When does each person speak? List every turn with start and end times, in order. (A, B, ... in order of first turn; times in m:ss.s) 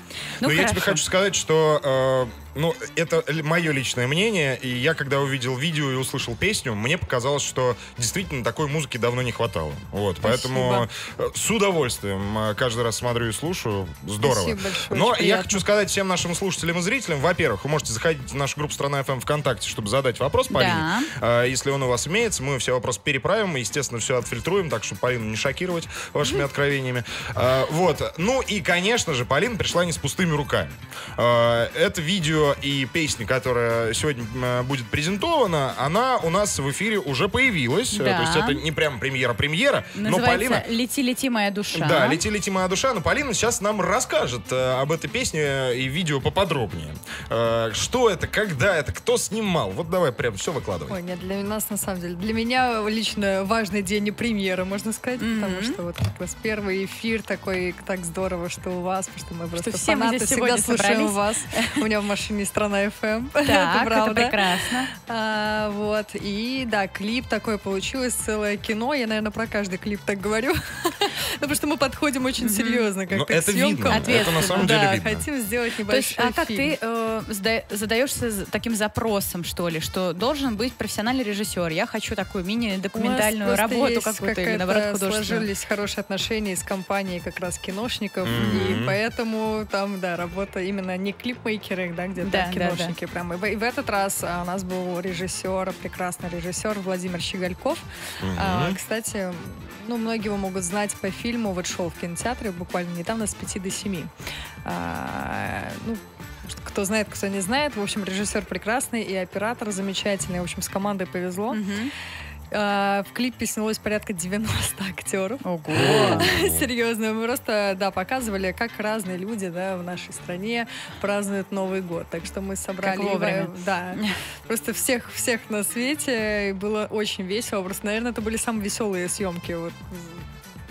0:00.4-0:01.0 A
0:00.4-0:40.7 B
0:10.2-0:10.9 C
0:14.2-0:15.6 C
0:20.5-0:21.1 A
0:37.9-0:38.6 A
0:40.0-0:42.2 A
0:41.7-0:51.0 B
0:50.9-1:16.7 C
0:55.2-0:55.8 A
0:59.6-1:01.8 A
1:03.4-1:04.9 A
1:12.4-1:12.9 A
1:13.1-1:15.2 B
1:13.9-1:14.9 A
1:15.9-1:25.5 A
1:22.9-1:44.1 C
1:28.2-1:29.0 B
1:28.3-1:28.6 A
1:32.2-1:32.9 A
1:38.2-1:38.8 B
1:44.6-1:51.6 C
1:51.5-1:51.9 A
1:52.5-2:10.2 C
1:55.4-1:56.3 A
1:55.7-1:56.6 B
2:02.8-2:04.2 A